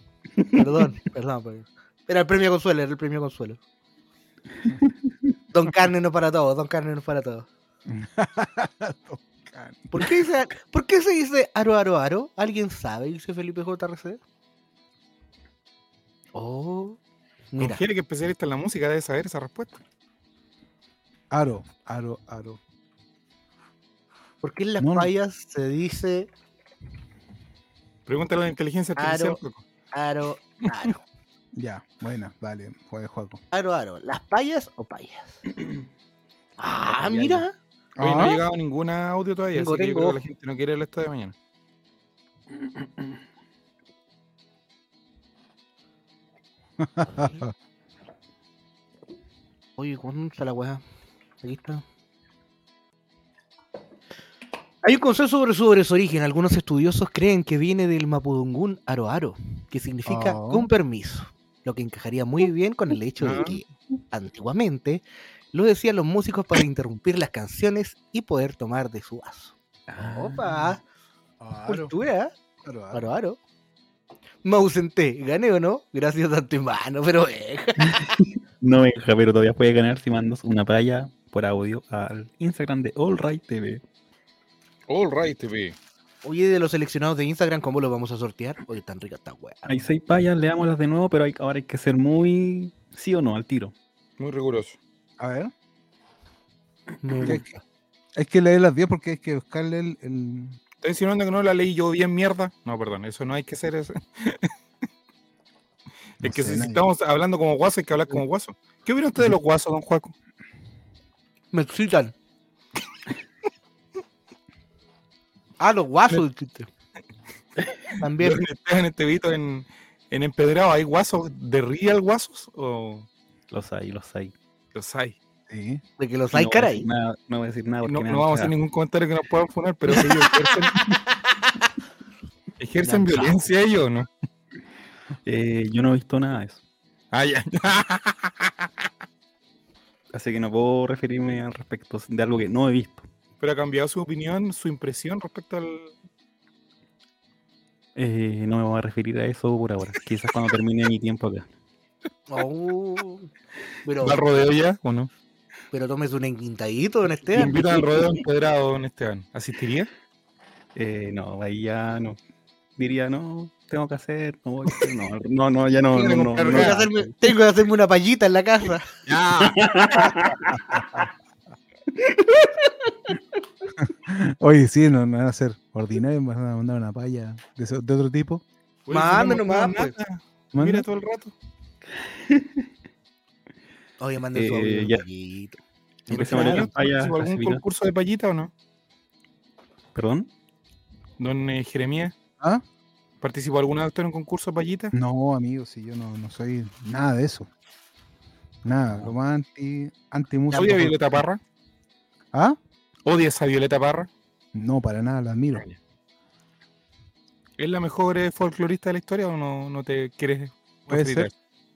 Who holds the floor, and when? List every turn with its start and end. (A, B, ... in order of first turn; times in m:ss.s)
0:00.5-0:03.6 A
0:05.5-0:07.5 A
0:07.9-0:10.1 B
0:09.9-0:14.2 A
0:16.3-0:17.0 A
0:17.5-0:17.8 A
0:17.6-0:19.8 C
0:21.3-0:22.6 B
0:24.4-0:26.3 A
0:24.8-0:25.1 B
0:28.0-0:29.6 C
0:29.0-0:29.4 A
0:29.9-0:31.0 A
0:31.6-0:33.4 B
0:33.5-0:35.4 A
0:36.6-0:37.5 A
0:37.0-0:37.4 C
0:38.0-0:38.4 B
0:38.0-0:41.3 C
0:39.5-0:40.2 A
0:46.8-0:47.5 B
0:49.8-0:50.8 A
0:51.4-0:51.8 A
0:54.8-1:10.8 A
1:00.0-1:00.7 B
1:03.2-1:03.6 C
1:10.0-1:10.7 B
1:11.4-1:12.0 B
1:11.6-1:12.3 A
1:12.6-1:13.1 B
1:12.9-1:13.4 A
1:14.4-1:18.2 A
1:17.8-1:23.8 D
1:24.9-1:25.8 C
1:26.2-1:29.8 A
1:29.6-1:33.7 D
1:34.2-1:34.8 C
1:35.2-1:35.5 B
1:37.0-1:37.6 A
1:38.2-1:40.6 B
1:40.8-1:44.5 C
1:46.2-1:50.1 C
1:46.2-1:46.8 B
1:51.5-1:52.1 A
1:55.6-1:56.7 A
1:58.0-1:58.4 A
1:58.2-2:03.1 C
2:03.5-2:04.3 D
2:04.7-2:05.2 C
2:05.5-2:05.8 B
2:06.0-2:06.9 A
2:06.3-2:08.5 D
2:07.8-2:10.9 C
2:10.4-2:11.5 A
2:12.6-2:14.1 C
2:12.8-2:13.4 A
2:15.2-2:16.6 D
2:17.1-2:18.7 C
2:20.1-2:23.0 D
2:23.4-2:25.9 C
2:28.0-2:31.5 D
2:32.3-2:33.3 A
2:33.8-2:34.2 A
2:34.0-2:35.1 C
2:35.7-2:37.9 A
2:37.3-2:39.9 C
2:40.7-2:42.2 D
2:42.8-2:47.1 D
2:45.9-2:46.8 C
2:46.4-2:48.9 A
2:49.1-2:50.1 C
2:49.4-2:50.7 D
2:50.7-2:51.0 B
2:52.0-2:52.5 D
2:53.8-2:58.4 B
2:58.9-3:01.3 C
2:58.9-2:59.9 A
3:00.5-3:00.9 B
3:04.0-3:05.6 A
3:04.3-3:05.0 D
3:06.1-3:07.6 D
3:06.1-3:08.5 C
3:06.1-3:06.7 A
3:09.9-3:10.3 D
3:11.2-3:12.2 C
3:13.2-3:14.9 C
3:14.9-3:17.5 B
3:18.6-3:21.2 B
3:20.5-3:21.4 C
3:23.0-3:24.1 C
3:24.6-3:25.6 B
3:27.6-3:31.3 C
3:30.9-3:31.3 B